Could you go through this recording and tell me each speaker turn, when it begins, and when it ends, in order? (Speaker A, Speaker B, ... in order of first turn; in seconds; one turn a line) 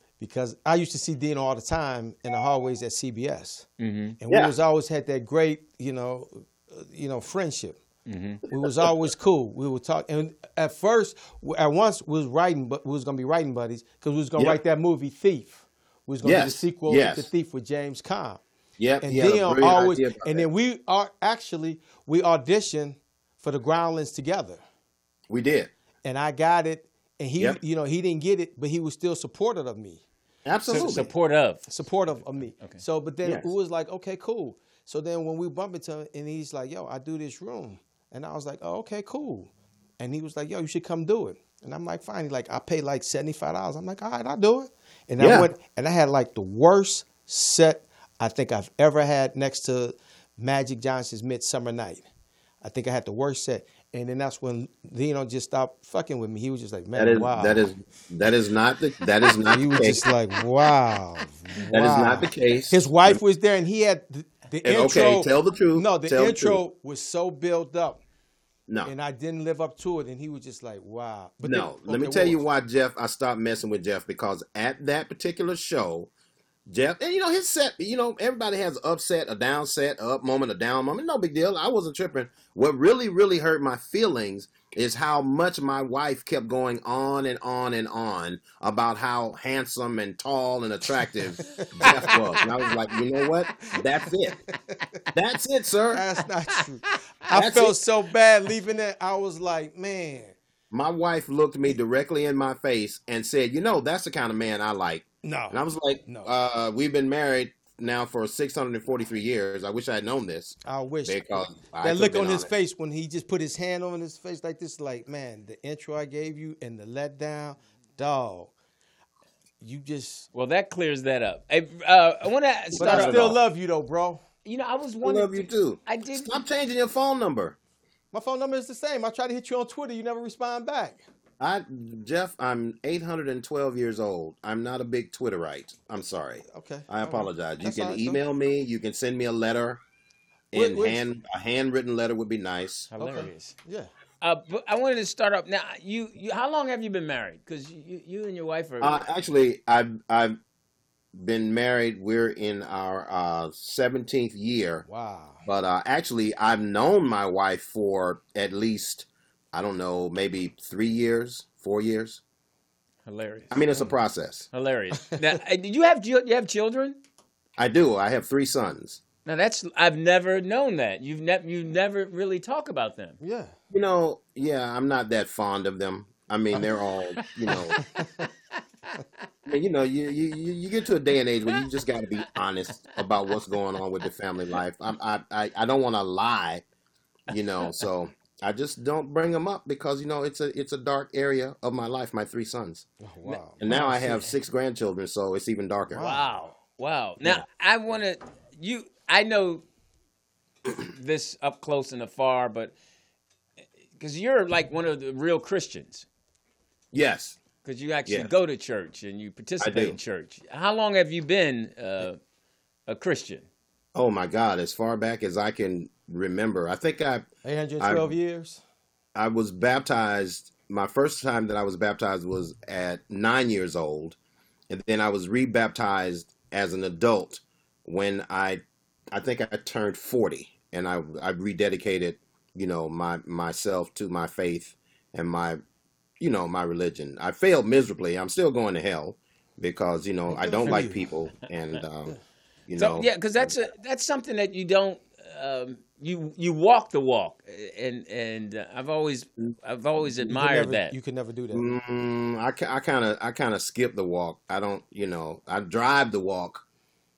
Speaker A: 0.2-3.6
Speaker B: 3.8-4.2
Speaker A: 4.2-7.8
Speaker B: 8.1-8.4
Speaker A: 8.5-18.4
Speaker C: 16.2-17.3
Speaker C: 18.8-20.4
Speaker A: 19.0-24.6
Speaker C: 25.3-25.7
Speaker A: 26.0-30.0
Speaker C: 30.4-31.1
Speaker B: 30.7-31.7
Speaker A: 31.7-52.0
Speaker C: 33.2-33.5
Speaker C: 45.2-45.5
Speaker A: 52.6-57.7
Speaker C: 56.9-60.0
Speaker A: 59.4-68.0
Speaker C: 61.6-63.2
Speaker C: 64.6-66.6
Speaker A: 68.8-72.4
Speaker C: 71.4-76.1
Speaker C: 76.7-94.4
Speaker A: 91.4-92.4
Speaker A: 94.5-95.0
Speaker C: 95.1-96.0
Speaker A: 95.9-100.3
Speaker C: 97.3-97.8
Speaker C: 100.7-112.5
Speaker A: 105.2-106.3
Speaker A: 110.6-118.5
Speaker A: 119.6-120.3
Speaker B: 120.3-123.4
Speaker C: 122.8-123.3
Speaker A: 122.8-124.2
Speaker B: 124.4-126.3
Speaker C: 125.0-127.6
Speaker A: 128.1-131.0
Speaker C: 131.4-139.8
Speaker A: 136.4-138.2
Speaker C: 140.5-142.9
Speaker A: 140.5-141.0
Speaker B: 142.9-143.5
Speaker A: 143.0-143.9
Speaker B: 144.2-149.0
Speaker C: 148.8-150.4
Speaker C: 151.1-154.8
Speaker A: 154.8-155.4
Speaker C: 155.4-162.2
Speaker B: 163.1-163.9
Speaker C: 163.5-164.5
Speaker B: 164.5-167.0
Speaker C: 167.6-169.0
Speaker B: 169.2-173.2
Speaker A: 173.2-173.5
Speaker C: 173.7-177.8
Speaker B: 177.2-177.8
Speaker A: 177.8-178.3
Speaker C: 179.4-186.6
Speaker C: 187.3-192.9
Speaker A: 193.0-194.2
Speaker B: 193.2-194.2
Speaker C: 193.6-196.1
Speaker A: 195.9-196.3
Speaker B: 195.9-199.6
Speaker B: 200.8-202.7
Speaker B: 204.0-206.1
Speaker C: 206.9-207.4
Speaker B: 207.6-212.2
Speaker C: 209.6-210.0
Speaker B: 212.9-213.5
Speaker C: 213.9-217.3
Speaker A: 217.4-218.6
Speaker C: 217.8-218.1
Speaker C: 219.1-224.2
Speaker C: 224.7-235.6
Speaker C: 236.2-243.6
Speaker A: 240.3-241.0
Speaker B: 242.8-250.9
Speaker A: 250.0-251.7
Speaker C: 251.5-256.6